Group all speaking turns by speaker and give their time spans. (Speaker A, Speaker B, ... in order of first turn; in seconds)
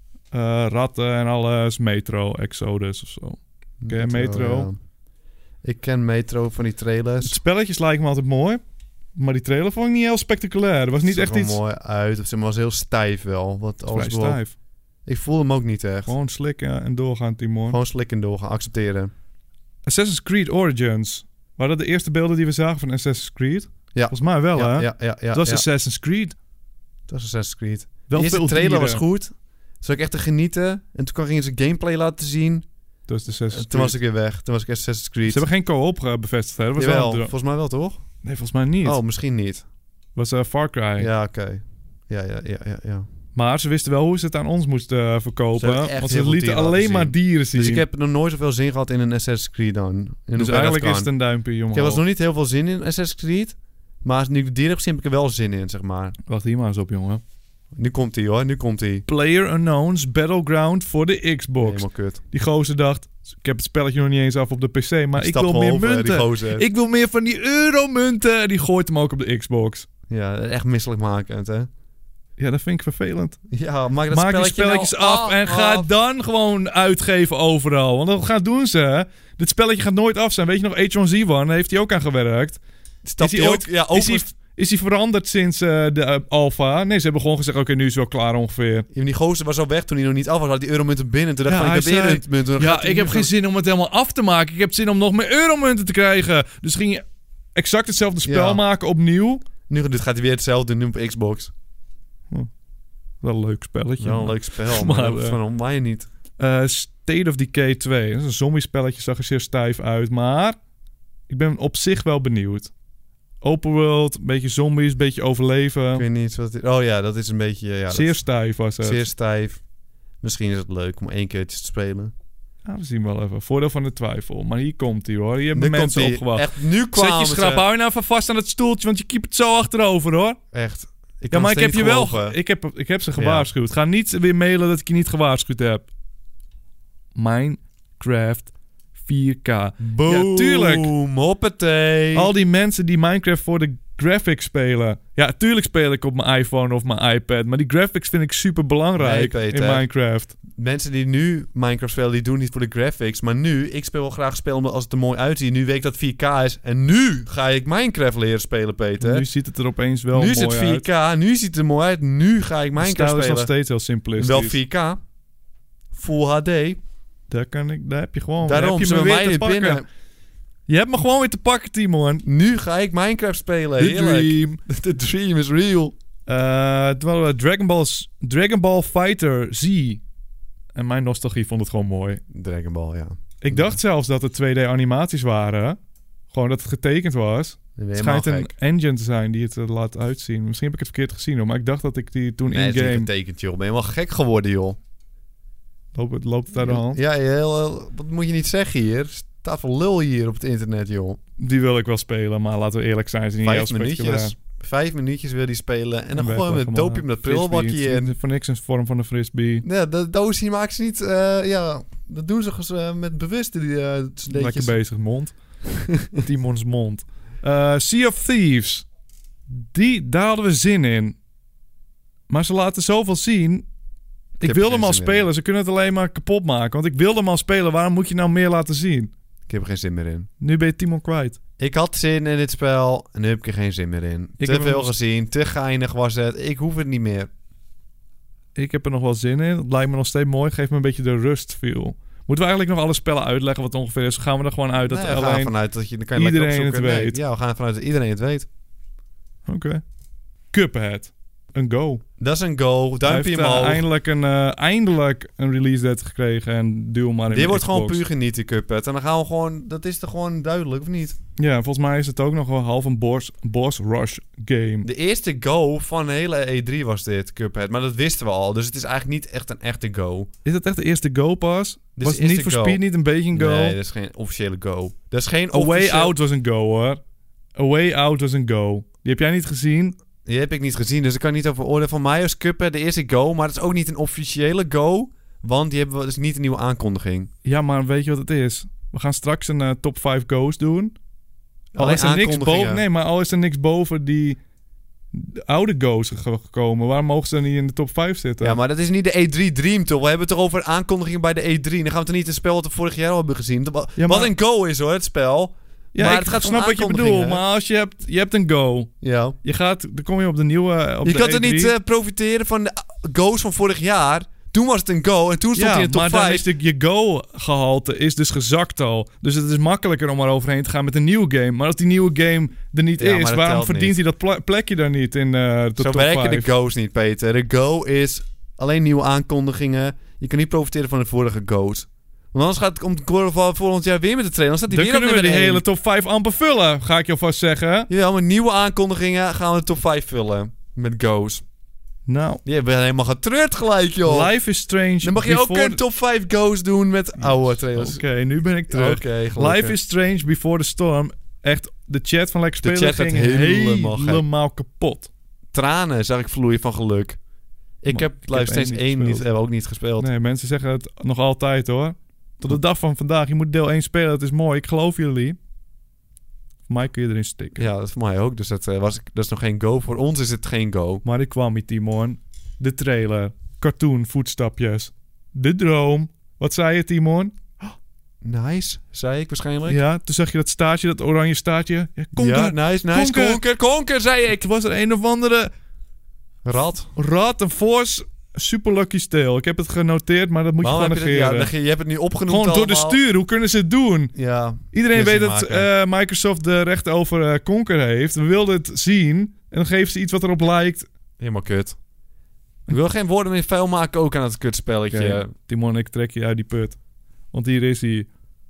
Speaker A: 0.3-4.7, 7.2-8.6, 9.2-11.6, 13.9-14.5, 16.1-17.8, 19.8-26.4, 28.1-29.0, 33.1-34.0, 35.3-37.3, 38.2-39.0, 40.1-41.1, 43.4-47.8, 50.4-52.0, 56.2-57.2, 59.1-69.9, 72.4-73.4, 74.1-82.6, 83.2-88.9, 91.5-97.0, 97.5-99.4, 103.2-105.4, 106.4-110.6, 111.3-112.7, 113.4-116.0, 117.9-119.1, 122.7-130.4, 131.3-135.9, 137.1-140.9, 142.1-150.3, 159.0-160.8, 162.8-164.6, 167.3-169.8, 170.7-172.2, 173.8-174.6, 176.3-180.0, 180.7-182.2, 183.4-185.8, 186.3-193.1, 195.9-197.0, 201.4-204.3, 206.1-209.6, 214.3-215.3, 216.1-218.8, 219.5-221.2, 222.3-223.7, 224.4-229.1, 230.4-231.4, 234.4-234.9, 238.5-245.5, 246.2-247.2, 249.4-249.8, 250.5-252.0, 253.0-258.0, 261.4-264.9, 270.4-273.8, 275.5-277.0, 277.6-279.9, 287.4-290.9, 291.8-294.4, 295.1-298.6, 304.0-304.3, 305.9-308.9, 309.4-311.7, 315.5-326.5, 334.7-337.9, 342.1-342.4, 344.0-345.8, 347.2-355.1, 357.9-359.2, 360.0-365.4, 366.7-367.6, 371.0-377.4, 379.7-383.4, 384.3-385.5, 386.9-391.5, 392.3-394.1, 394.7-400.9, 404.9-406.8, 407.3-408.1
Speaker B: 3.8-4.7, 5.6-7.4, 11.1-14.4, 15.1-16.1, 17.7-19.1, 23.9-25.6, 27.1-32.6, 33.5-35.5, 36.8-38.0, 38.8-39.6, 41.0-43.1, 45.6-51.1, 51.7-56.1, 57.7-59.0, 61.6-62.2, 65.2-66.6, 70.1-71.7, 73.5-75.9, 83.0-84.3, 88.9-93.3, 98.2-98.6, 99.7-101.5, 104.0-106.1, 115.9-118.2, 118.8-119.6, 120.2-122.1, 125.5-127.6, 130.5-132.3, 133.2-133.5, 139.8-142.3, 149.0-149.8, 150.5-159.2, 160.1-163.5, 164.2-165.0, 165.9-166.8, 168.4-169.8, 172.2-175.9, 182.3-183.8, 187.8-188.5, 192.5-194.8, 196.5-201.2, 203.4-208.1, 209.6-214.7, 215.9-216.2, 224.4-225.3, 229.5-230.3, 231.6-237.3, 244.9-248.5, 252.2-253.8, 257.3-261.2, 264.8-270.3, 271.9-272.8, 273.3-276.1, 280.2-287.3, 291.7-292.8, 298.4-307.4, 309.0-309.4, 311.0-316.5, 323.0-324.0, 325.8-335.6, 337.9-341.4, 342.4-344.3, 345.0-348.0, 348.7-349.8, 352.6-354.2, 355.5-357.2, 357.8-360.1, 367.6-371.0, 378.2-379.8, 382.1-384.4, 386.4-386.9, 390.6-393.0, 394.1-395.7, 401.2-401.8, 402.7-405.3